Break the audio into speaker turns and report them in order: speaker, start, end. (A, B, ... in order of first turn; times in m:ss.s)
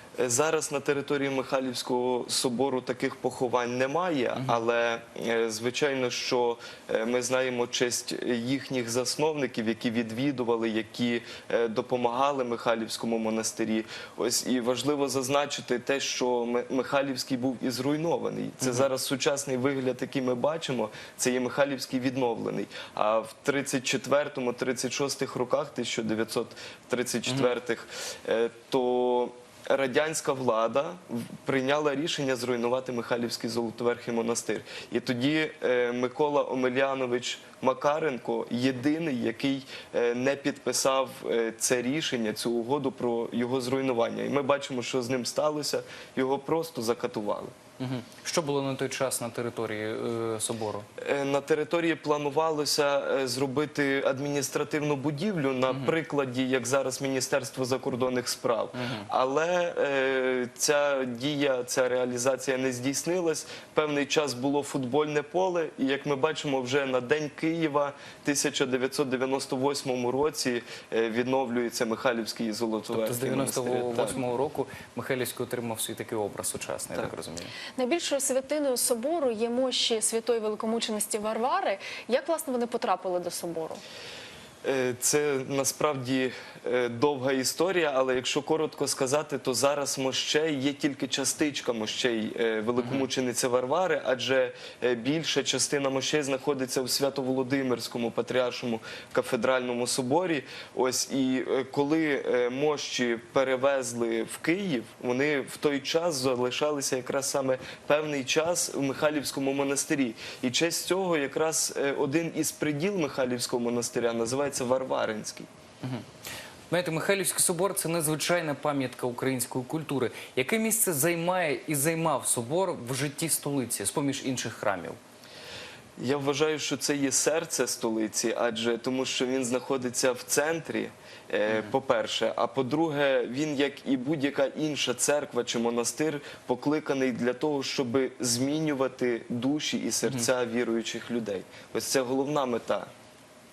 0:00.2-0:47.5 A
0:18.6-0:18.9 B
0:47.8-0:50.8 B
0:51.0-1:14.2 A
0:55.7-0:55.9 B
0:58.7-0:59.1 B
1:12.9-1:17.5 B
1:17.8-1:23.8 C
1:24.6-1:55.5 A
1:32.8-1:33.1 B
1:56.7-2:05.0 B
2:06.0-2:22.9 A